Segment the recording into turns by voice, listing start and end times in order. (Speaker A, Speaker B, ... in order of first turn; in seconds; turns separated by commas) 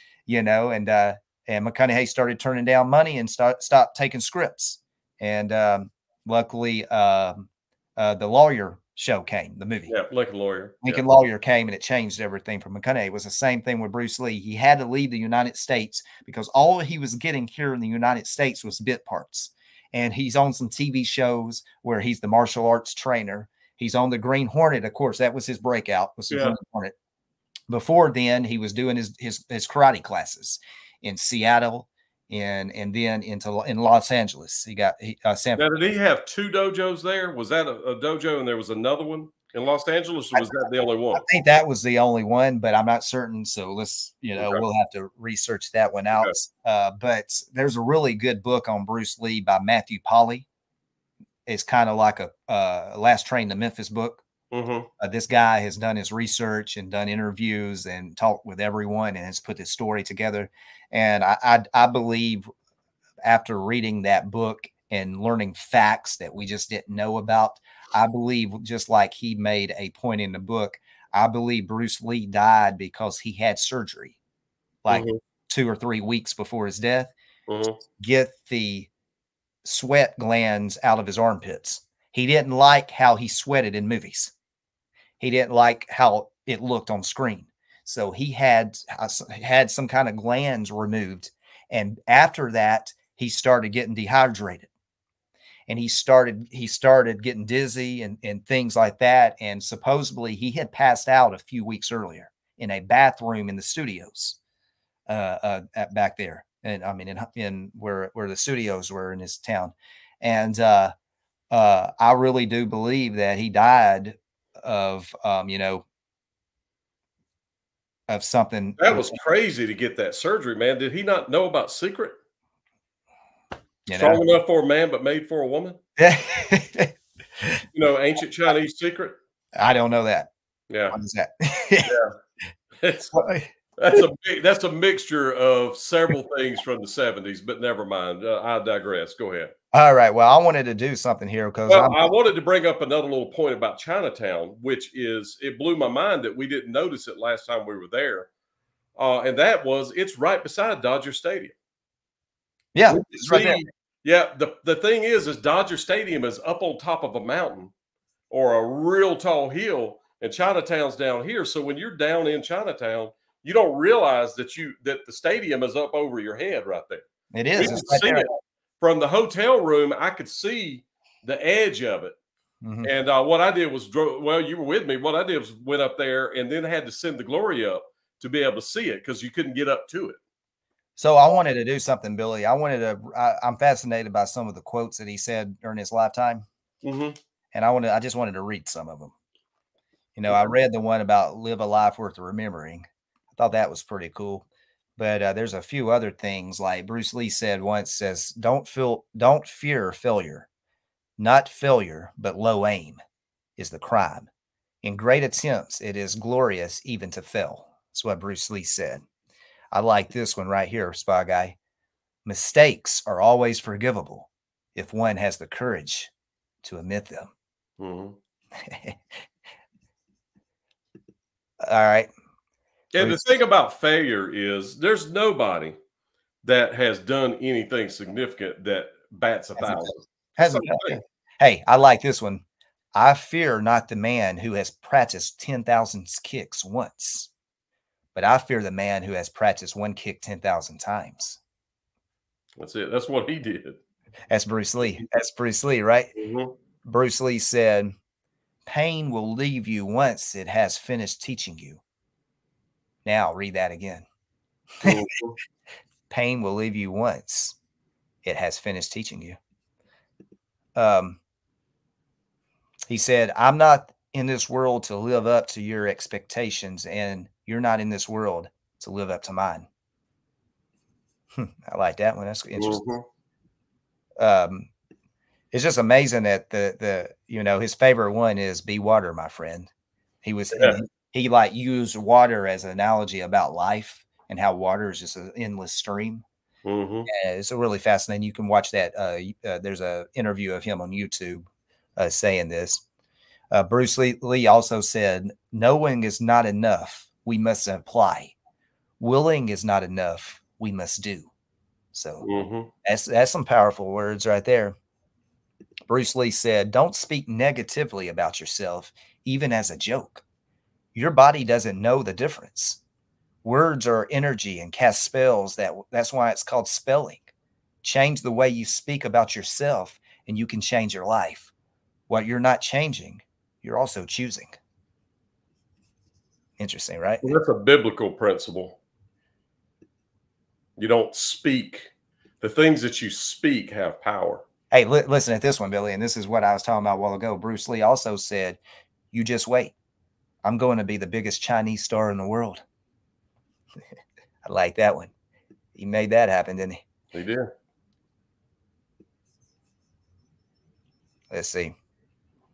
Speaker A: 0.3-9.9, Speaker B: 9.9-11.1, Speaker A: 10.8-26.9, Speaker B: 26.3-26.6, Speaker A: 27.7-35.6, Speaker B: 35.5-41.2, Speaker A: 41.1-50.5, Speaker B: 44.4-44.6, Speaker A: 51.5-54.2, Speaker B: 54.5-54.9, Speaker A: 55.0-62.4, Speaker A: 63.2-74.2, Speaker A: 74.8-77.1, Speaker B: 74.9-75.2, Speaker B: 77.5-77.8, Speaker A: 78.0-78.9, Speaker A: 79.6-84.3, Speaker A: 85.2-94.7, Speaker A: 95.7-104.4, Speaker A: 105.1-110.9, Speaker A: 111.5-115.8, Speaker A: 118.1-119.2, Speaker B: 118.8-122.1, Speaker A: 123.9-124.2, Speaker B: 123.9-125.8, Speaker A: 126.0-127.6, Speaker B: 127.7-129.2, Speaker A: 129.6-130.3, Speaker B: 130.7-131.0, Speaker A: 130.9-131.9, Speaker B: 131.8-132.1, Speaker B: 132.8-133.2, Speaker A: 133.1-134.0, Speaker B: 133.8-139.5, Speaker A: 139.7-142.1, Speaker B: 141.7-148.3, Speaker B: 148.9-151.6, Speaker A: 152.7-153.6, Speaker B: 152.9-157.7, Speaker B: 158.3-167.0, Speaker A: 167.3-168.3, Speaker B: 167.6-172.2, Speaker A: 172.6-172.9, Speaker B: 172.8-180.2, Speaker A: 181.0-186.4, Speaker B: 186.8-187.2, Speaker A: 187.5-189.1, Speaker A: 190.2-194.4, Speaker A: 195.0-200.5, Speaker A: 201.2-203.0, Speaker A: 203.6-204.3, Speaker A: 204.8-209.0, Speaker A: 209.7-211.6, Speaker A: 212.2-216.1, Speaker A: 216.6-217.3, Speaker B: 217.8-218.2, Speaker A: 218.6-219.0, Speaker A: 221.6-222.1, Speaker B: 222.9-225.7, Speaker A: 223.0-223.4, Speaker B: 226.4-231.0, Speaker A: 229.6-232.4, Speaker A: 232.9-237.3, Speaker A: 238.1-241.4, Speaker B: 242.6-243.8, Speaker A: 244.3-246.1, Speaker B: 246.2-246.5, Speaker A: 246.8-247.9, Speaker A: 248.7-251.8, Speaker A: 253.1-254.1, Speaker B: 254.8-255.4, Speaker A: 256.1-257.6, Speaker A: 258.2-259.4, Speaker A: 260.8-261.2, Speaker A: 262.9-269.7, Speaker A: 271.3-272.8, Speaker B: 272.6-273.1, Speaker A: 274.2-274.7, Speaker A: 275.5-279.7, Speaker A: 280.2-286.2, Speaker B: 286.6-287.1, Speaker A: 287.1-291.4, Speaker A: 292.0-292.8, Speaker A: 293.5-298.3, Speaker A: 299.0-301.3, Speaker A: 301.9-302.3, Speaker B: 302.2-302.7, Speaker A: 302.8-304.7, Speaker A: 305.9-310.2, Speaker A: 310.9-312.8, Speaker A: 313.4-317.3, Speaker A: 317.8-321.5, Speaker A: 322.1-324.6, Speaker A: 326.6-327.3, Speaker B: 327.2-328.8, Speaker B: 330.8-331.9, Speaker B: 332.4-334.4, Speaker A: 334.7-338.6, Speaker A: 339.1-339.7, Speaker A: 340.4-342.6, Speaker A: 344.4-345.1, Speaker A: 345.7-346.8, Speaker B: 347.1-347.5, Speaker A: 351.3-351.7